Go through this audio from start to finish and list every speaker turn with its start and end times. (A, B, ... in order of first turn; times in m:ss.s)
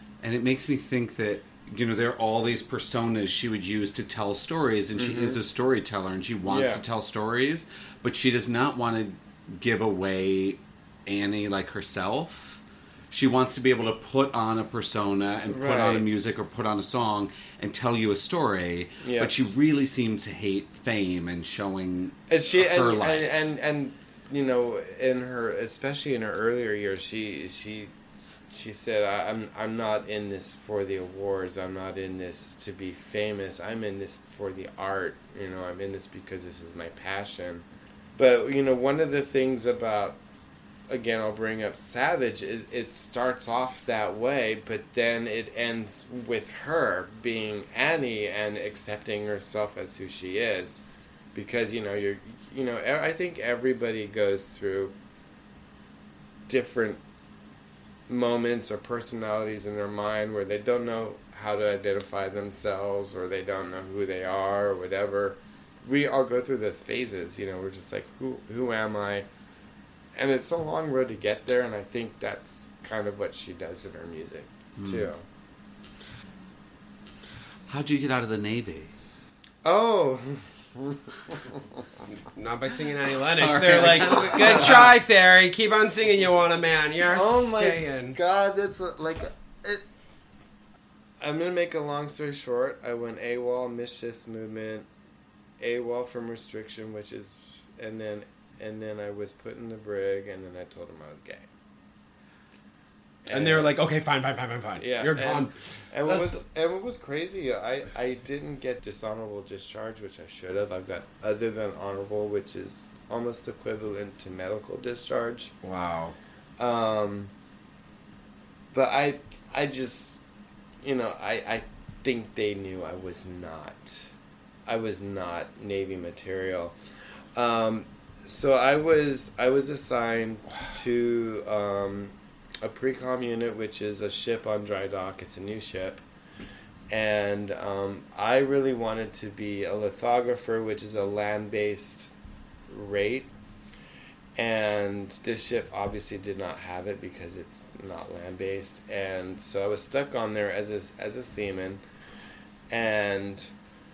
0:00.2-0:23.4 A
0:05.0-0:05.4 B
0:06.4-0:06.8 B
0:15.5-0:16.0 B
0:19.0-0:19.3 B
0:22.3-0:40.2 B
0:40.9-0:50.8 B
0:51.3-0:54.9 B
0:56.5-0:57.0 B
0:58.1-1:09.3 B
1:10.2-1:15.2 B
1:14.8-1:15.1 A
1:17.7-1:18.9 A
1:19.6-1:21.6 B
1:22.0-1:28.2 C
1:23.2-1:24.9 A
1:27.0-1:29.8 B
1:31.2-1:34.9 B
1:35.6-1:41.5 B
1:43.2-1:43.7 B
1:43.3-1:46.4 C
1:44.8-1:55.5 B
1:55.6-1:56.2 C
1:56.6-1:57.3 B
1:58.7-2:00.2 B
2:00.8-2:04.0 B
2:04.6-2:06.7 B
2:07.3-2:16.0 B
2:16.9-2:22.1 B
2:22.7-2:23.3 B
2:24.4-2:31.8 B
2:32.7-2:33.5 B